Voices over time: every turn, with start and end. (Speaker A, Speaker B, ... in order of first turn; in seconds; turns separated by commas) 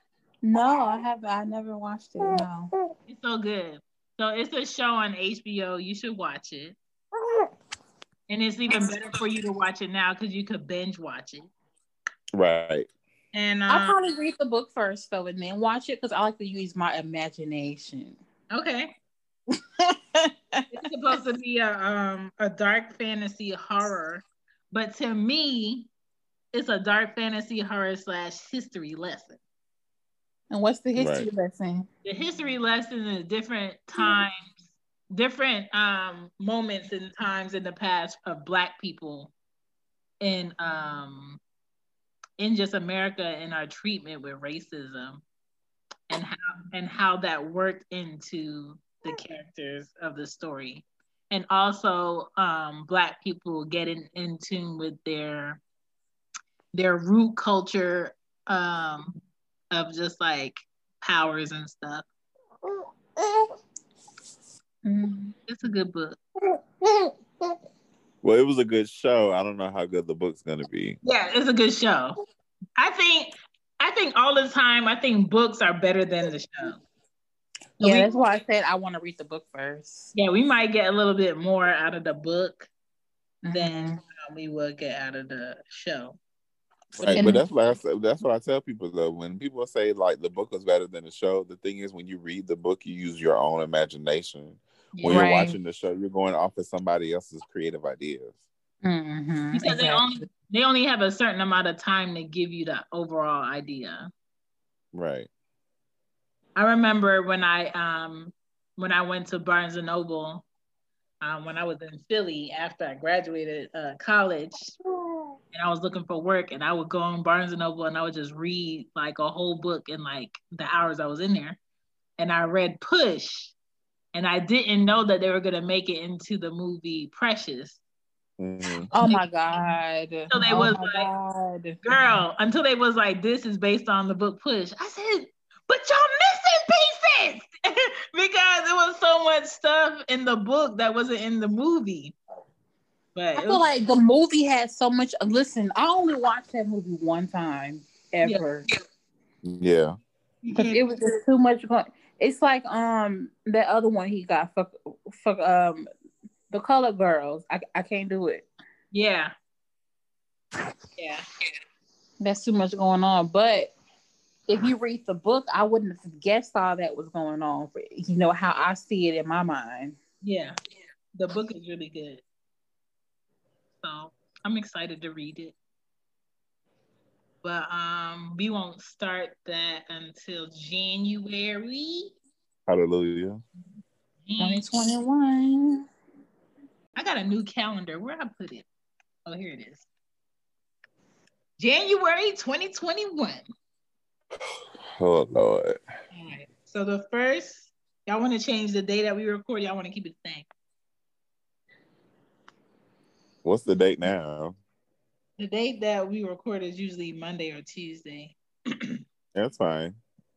Speaker A: 0.4-2.7, Speaker B: 3.1-6.8, Speaker B: 8.3-11.5, Speaker C: 12.3-12.9, Speaker B: 13.3-14.0, Speaker A: 13.7-18.2, Speaker B: 18.5-18.9, Speaker A: 19.5-20.7, Speaker B: 20.7-25.9, Speaker B: 26.5-29.4, Speaker A: 30.5-31.9, Speaker C: 30.9-31.3, Speaker B: 32.0-34.6, Speaker B: 35.1-39.3, Speaker B: 40.2-41.4, Speaker B: 42.4-45.2, Speaker B: 46.1-55.6, Speaker B: 56.7-59.2, Speaker B: 59.7-62.1, Speaker A: 64.8-65.3, Speaker B: 65.5-66.2, Speaker C: 68.2-71.0, Speaker B: 71.0-72.2, Speaker B: 72.8-76.8, Speaker B: 77.8-78.1, Speaker A: 77.8-80.1, Speaker B: 80.1-82.7, Speaker A: 83.4-84.0, Speaker B: 83.5-86.2, Speaker B: 87.0-87.3, Speaker C: 87.0-98.4, Speaker A: 87.1-87.4, Speaker B: 94.9-95.2, Speaker A: 95.0-95.5, Speaker A: 98.8-100.1, Speaker B: 99.5-104.1, Speaker C: 104.9-105.3, Speaker B: 106.5-110.5, Speaker B: 111.2-114.7, Speaker B: 115.5-121.6, Speaker B: 122.2-123.5, Speaker B: 124.1-127.8, Speaker C: 128.4-128.9, Speaker B: 128.8-129.3, Speaker A: 128.9-131.8, Speaker B: 130.3-131.1, Speaker B: 131.8-142.1, Speaker B: 143.1-143.6, Speaker A: 143.4-148.7, Speaker C: 149.4-149.9, Speaker B: 150.4-150.8, Speaker A: 150.6-155.9, Speaker A: 156.5-158.5, Speaker B: 158.9-159.3, Speaker B: 161.0-161.2, Speaker A: 162.2-163.7, Speaker A: 164.5-170.0, Speaker B: 170.2-170.6, Speaker B: 171.1-172.2, Speaker B: 173.8-175.5, Speaker B: 177.4-182.2, Speaker C: 182.7-183.4, Speaker B: 184.2-184.7, Speaker A: 184.4-185.8, Speaker B: 186.9-188.7, Speaker B: 189.2-189.9, Speaker B: 191.6-193.4, Speaker C: 194.9-195.8, Speaker B: 196.1-200.5, Speaker C: 203.4-204.6, Speaker B: 205.4-209.0, Speaker C: 209.3-209.9